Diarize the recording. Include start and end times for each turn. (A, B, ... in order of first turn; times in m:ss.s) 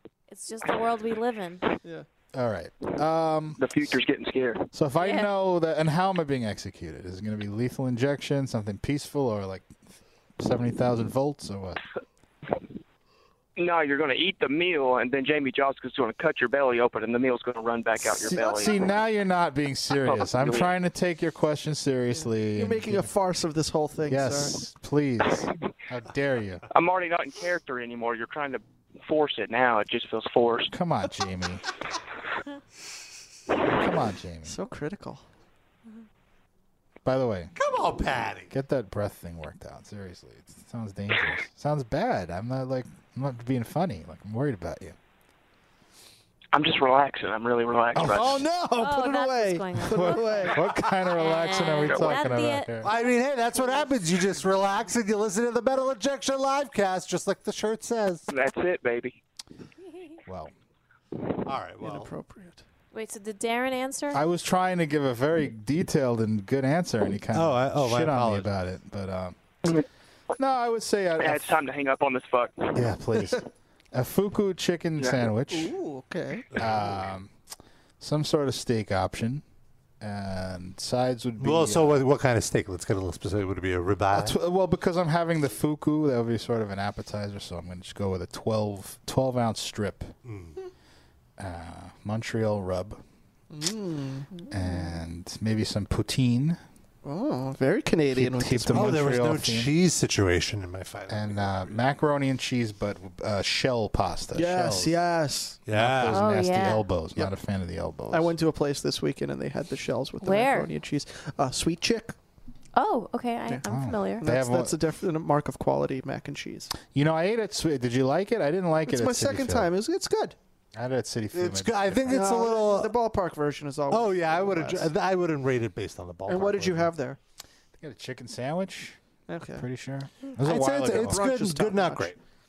0:00.3-0:01.7 A
0:02.3-0:03.6 B
0:03.6-0:04.7 C
0:04.7-0:09.7 B
0:05.0-0:05.3 A
0:10.4-0:11.8 B
0:13.6-0:18.8 C
0:18.0-0:23.1 B
0:20.0-0:20.7 C
0:22.5-0:24.6 D
0:24.1-0:26.6 B
0:26.7-0:30.7 C
0:30.7-0:31.6 B
0:33.7-0:34.6 B
0:34.4-0:35.2 D
0:37.0-0:37.5 B
0:37.6-0:38.5 E
0:38.5-0:45.0 B
0:46.5-0:48.4 C
0:47.9-0:48.3 E
0:48.0-0:50.8 D
0:48.8-0:53.1 A
0:49.9-0:52.9 B
0:52.8-0:58.3 E
0:58.3-0:59.2 C
1:00.2-1:00.5 B
1:01.4-1:02.1 E
1:01.8-1:02.6 D
1:02.9-1:04.2 A
1:04.1-1:09.4 B
1:07.3-1:08.5 E
1:10.4-1:11.6 B
1:11.2-1:12.8 C
1:12.7-1:15.7 B
1:15.5-1:16.5 D
1:16.6-1:17.3 B
1:18.0-1:19.4 B
1:20.0-1:22.0 B
1:21.4-1:24.4 E
1:24.1-1:30.1 B
1:30.2-1:30.5 E
1:31.4-1:33.0 B
1:33.5-1:34.3 D
1:34.3-1:34.9 A
1:34.5-1:36.6 B
1:37.0-1:39.1 D
1:38.1-1:39.7 B
1:38.7-1:41.6 E
1:41.1-1:45.0 B
1:44.3-1:45.6 D
1:45.6-1:46.2 E
1:45.7-1:48.3 B
1:46.1-1:46.8 A
1:48.1-1:52.1 D
1:50.2-1:50.7 A
1:52.8-1:54.2 A
1:53.6-1:54.8 B
1:54.2-1:56.7 D
1:56.9-1:59.7 B
1:58.9-2:00.4 D
2:00.8-2:02.3 B
2:01.3-2:02.9 E
2:02.1-2:04.9 D
2:03.9-2:06.9 E
2:06.3-2:07.2 D
2:07.8-2:09.0 B
2:09.3-2:09.6 D
2:09.6-2:11.2 B
2:10.4-2:12.2 E
2:10.8-2:12.1 D